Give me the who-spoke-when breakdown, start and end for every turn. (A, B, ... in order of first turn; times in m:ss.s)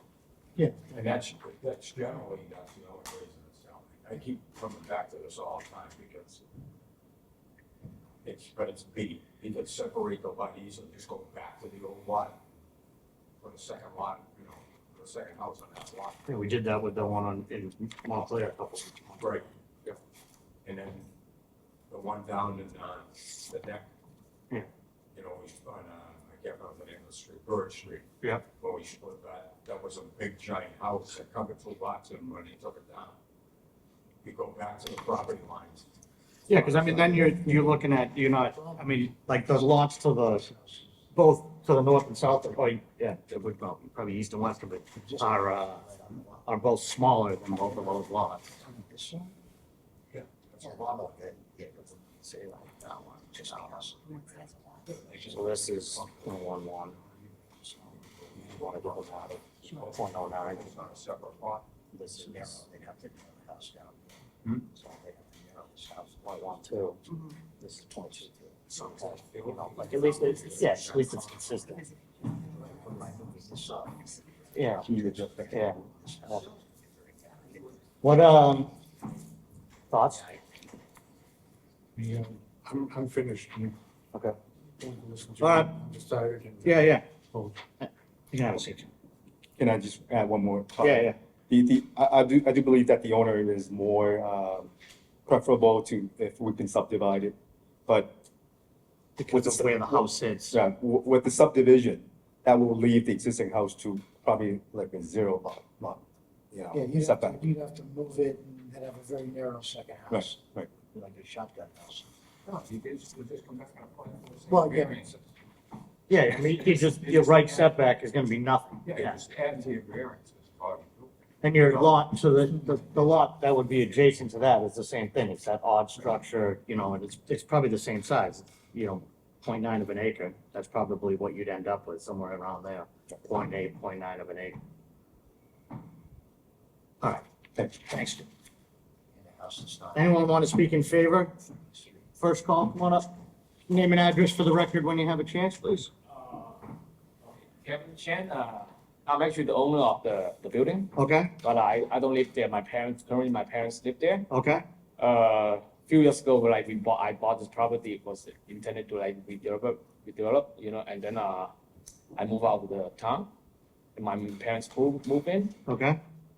0:00.9-0:06.4 A
0:08.2-0:12.4 A
0:13.4-0:16.2 A
0:16.3-0:19.4 B
0:19.2-0:20.0 A
0:20.6-0:21.1 A
0:21.9-0:23.9 A
0:25.1-0:33.2 A
0:28.2-0:28.5 B
0:34.2-0:35.9 A
0:36.5-0:40.5 B
0:36.6-0:36.9 A
0:41.1-0:45.9 B
0:45.1-0:46.4 C
0:46.4-0:48.5 B
0:48.6-0:49.3 C
0:50.1-0:51.3 A
0:50.7-0:52.0 C
0:52.2-0:53.9 B
0:53.2-0:54.8 C
0:54.9-0:56.1 A
0:55.3-0:57.0 B
0:58.2-1:01.7 A
0:58.6-0:59.3 B
0:59.9-1:00.7 B
1:01.9-1:02.6 B
1:02.2-1:04.2 C
1:04.9-1:06.1 C
1:06.1-1:07.0 B
1:07.6-1:11.8 B
1:08.9-1:10.6 A
1:09.7-1:10.7 C
1:12.4-1:14.1 C
1:14.5-1:14.9 B
1:14.8-1:15.5 A
1:14.9-1:16.5 C
1:15.5-1:16.4 B
1:18.0-1:18.7 B
1:19.9-1:20.3 B
1:22.0-1:23.8 D
1:24.8-1:27.6 D
1:25.4-1:25.7 B
1:26.6-1:27.0 B
1:27.8-1:28.9 B
1:29.6-1:34.7 E
1:30.8-1:31.2 B
1:35.3-1:37.4 E
1:37.9-1:38.2 E
1:39.2-1:40.6 B
1:39.3-1:47.5 E
1:46.8-1:50.2 C
1:50.1-1:50.7 E
1:50.9-1:52.1 C
1:52.5-1:55.2 A
1:54.5-1:55.0 C
1:56.1-1:59.2 B
1:58.9-2:01.1 A
2:01.4-2:14.6 B
2:17.0-2:18.2 B
2:19.2-2:20.0 C
2:19.9-2:21.4 B
2:22.2-2:23.1 B
2:23.7-2:25.9 B
2:26.1-2:26.6 F
2:27.2-2:34.3 F
2:31.0-2:31.3 B
2:34.3-2:34.6 B
2:35.0-2:41.5 F
2:42.2-2:43.3 F
2:44.0-2:45.6 F
2:45.7-2:46.0 B